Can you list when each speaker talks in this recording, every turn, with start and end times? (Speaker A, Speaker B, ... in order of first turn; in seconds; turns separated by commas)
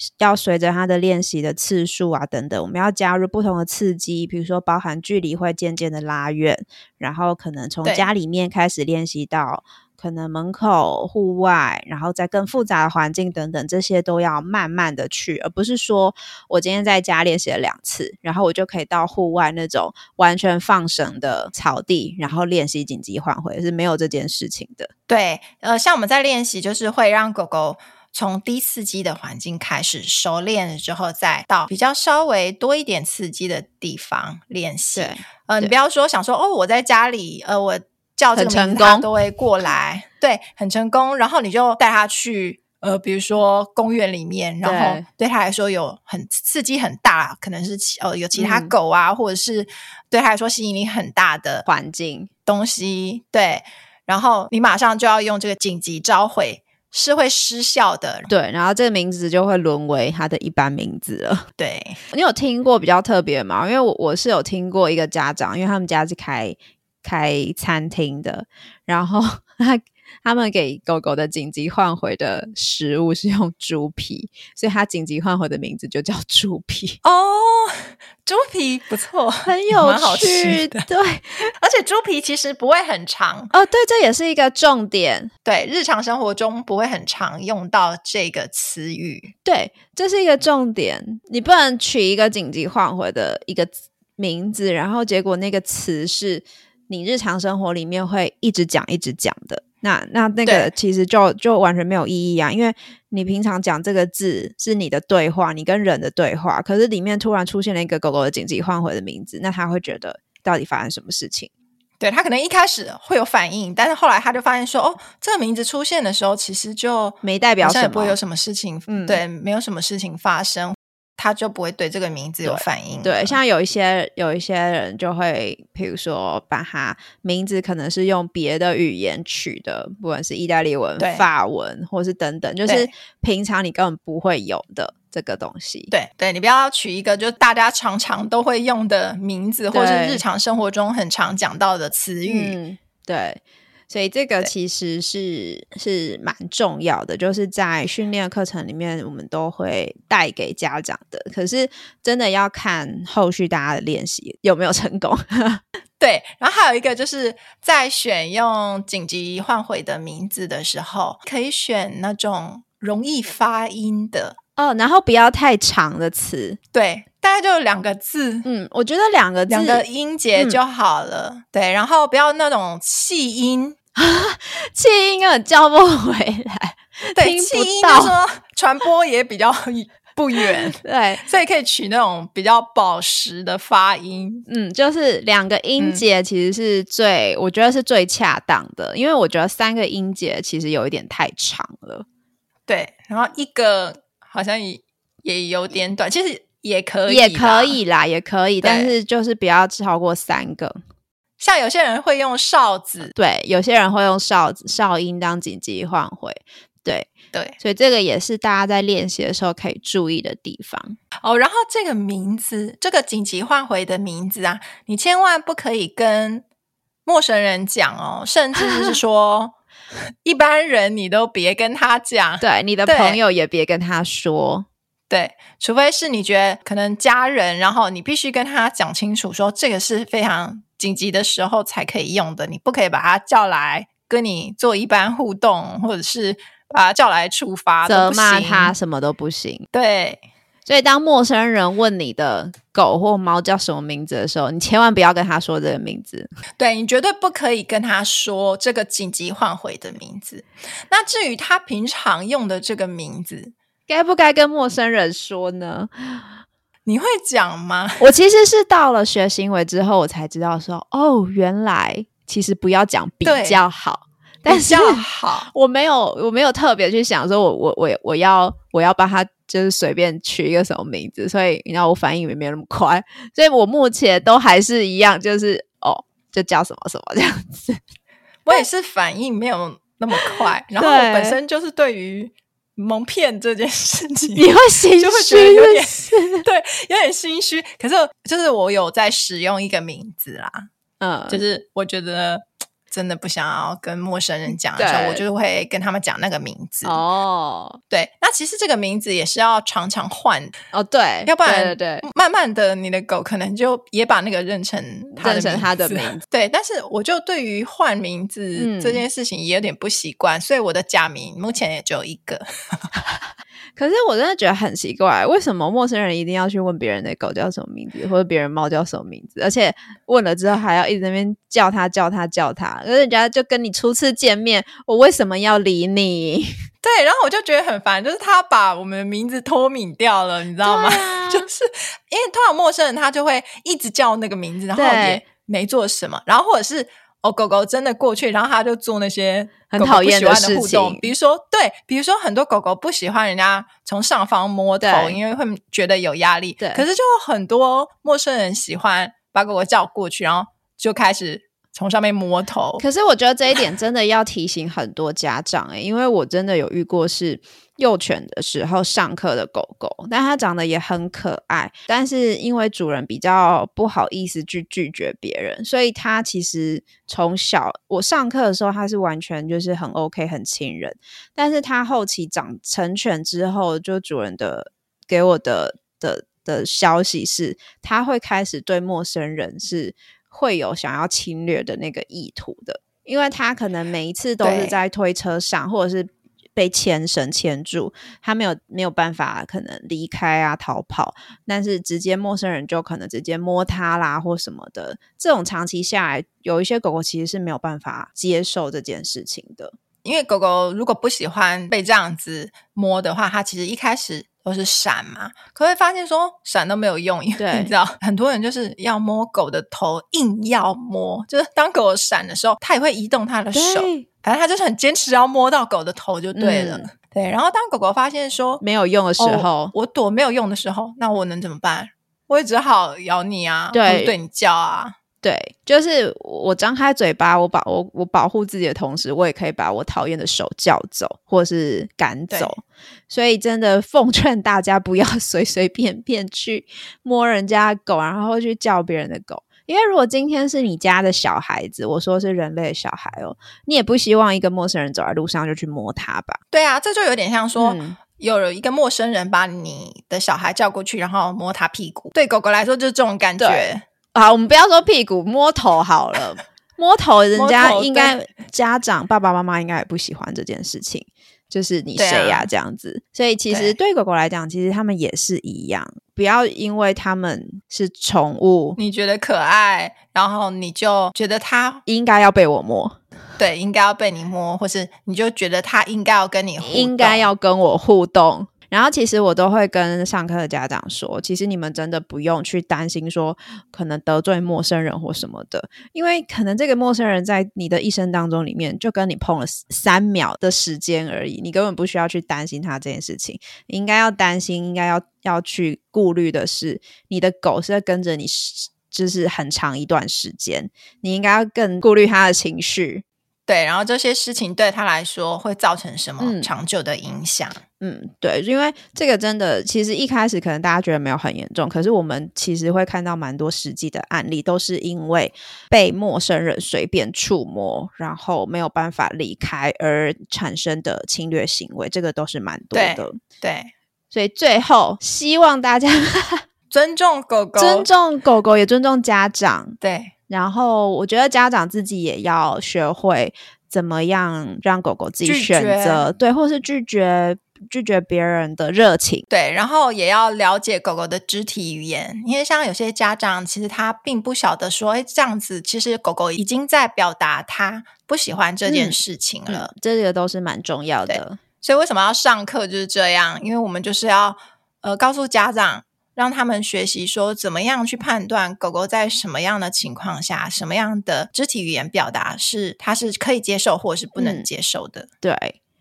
Speaker A: 0.2-24.9, Speaker B: 25.1-51.7, Speaker A: 34.9-35.7, Speaker A: 38.3-39.1, Speaker A: 44.6-45.0, Speaker A: 48.4-48.7, Speaker A: 51.7-52.3, Speaker B: 52.5-58.3, Speaker A: 58.3-61.5, Speaker B: 61.6-62.0, Speaker A: 62.1-77.0, Speaker B: 77.0-80.9, Speaker A: 79.4-81.5, Speaker B: 81.6-83.5, Speaker A: 83.5-85.3, Speaker B: 85.4-89.3, Speaker A: 89.4-111.5, Speaker B: 100.4-100.7, Speaker B: 112.0-123.4, Speaker A: 117.2-118.2, Speaker A: 118.9-119.2, Speaker A: 122.4-135.9, Speaker B: 131.0-131.2, Speaker B: 135.9-142.6, Speaker A: 139.7-140.2, Speaker A: 142.3-155.6, Speaker B: 156.0-164.4, Speaker A: 164.6-166.6, Speaker B: 166.7-168.4, Speaker A: 168.4-170.6, Speaker B: 169.5-173.8, Speaker A: 173.9-178.2, Speaker B: 177.1-184.4, Speaker A: 180.4-181.2, Speaker A: 184.5-192.1, Speaker B: 185.8-186.0, Speaker B: 192.7-197.8, Speaker A: 197.1-200.8, Speaker B: 198.6-198.9, Speaker B: 201.4-203.1, Speaker A: 203.1-211.0, Speaker B: 211.2-216.4, Speaker B: 217.1-219.5, Speaker B: 220.2-223.2, Speaker A: 222.4-224.7, Speaker B: 225.1-238.7, Speaker A: 237.8-239.7, Speaker B: 239.7-240.2, Speaker A: 240.7-246.3, Speaker B: 246.6-253.5, Speaker A: 253.9-256.3, Speaker B: 256.9-258.1, Speaker A: 258.0-277.8, Speaker B: 263.2-263.6, Speaker B: 264.4-265.5, Speaker B: 278.4-290.7, Speaker A: 280.1-281.4, Speaker A: 284.3-286.4, Speaker A: 291.0-291.4, Speaker B: 291.3-297.0, Speaker A: 294.8-295.2, Speaker A: 296.8-297.8, Speaker B: 297.9-300.5, Speaker A: 300.7-302.0, Speaker B: 301.2-312.4, Speaker A: 305.1-306.2, Speaker A: 308.6-309.0, Speaker A: 313.8-326.5, Speaker B: 326.8-352.8, Speaker A: 330.6-331.5, Speaker A: 334.7-335.2, Speaker A: 339.7-341.1, Speaker A: 344.8-345.2, Speaker A: 346.6-346.8, Speaker A: 352.8-399.7, Speaker B: 384.4-384.8, Speaker B: 400.0-418.6, Speaker A: 407.4-407.7, Speaker A: 413.5-414.1, Speaker A: 416.4-416.9, Speaker A: 418.6-419.7, Speaker B: 419.2-424.9, Speaker A: 423.7-424.1, Speaker A: 425.2-446.4, Speaker B: 446.5-453.8, Speaker A: 447.6-448.0, Speaker A: 453.4-468.8, Speaker B: 457.3-458.2, Speaker B: 462.0-462.5, Speaker B: 463.5-463.8, Speaker B: 468.8-471.8, Speaker A: 471.9-473.0, Speaker B: 473.4-477.3, Speaker A: 476.6-503.0, Speaker B: 503.5-507.6, Speaker A: 506.2-506.5, Speaker A: 507.8-523.2, Speaker B: 522.7-523.7, Speaker A: 524.1-526.4, Speaker B: 526.7-527.9, Speaker A: 527.6-529.8, Speaker B: 529.8-530.1, Speaker A: 530.3-539.2, Speaker B: 535.2-536.1, Speaker B: 539.3-549.7, Speaker A: 548.7-551.4, Speaker B: 551.1-565.1, Speaker A: 564.2-564.5, Speaker A: 565.2-565.6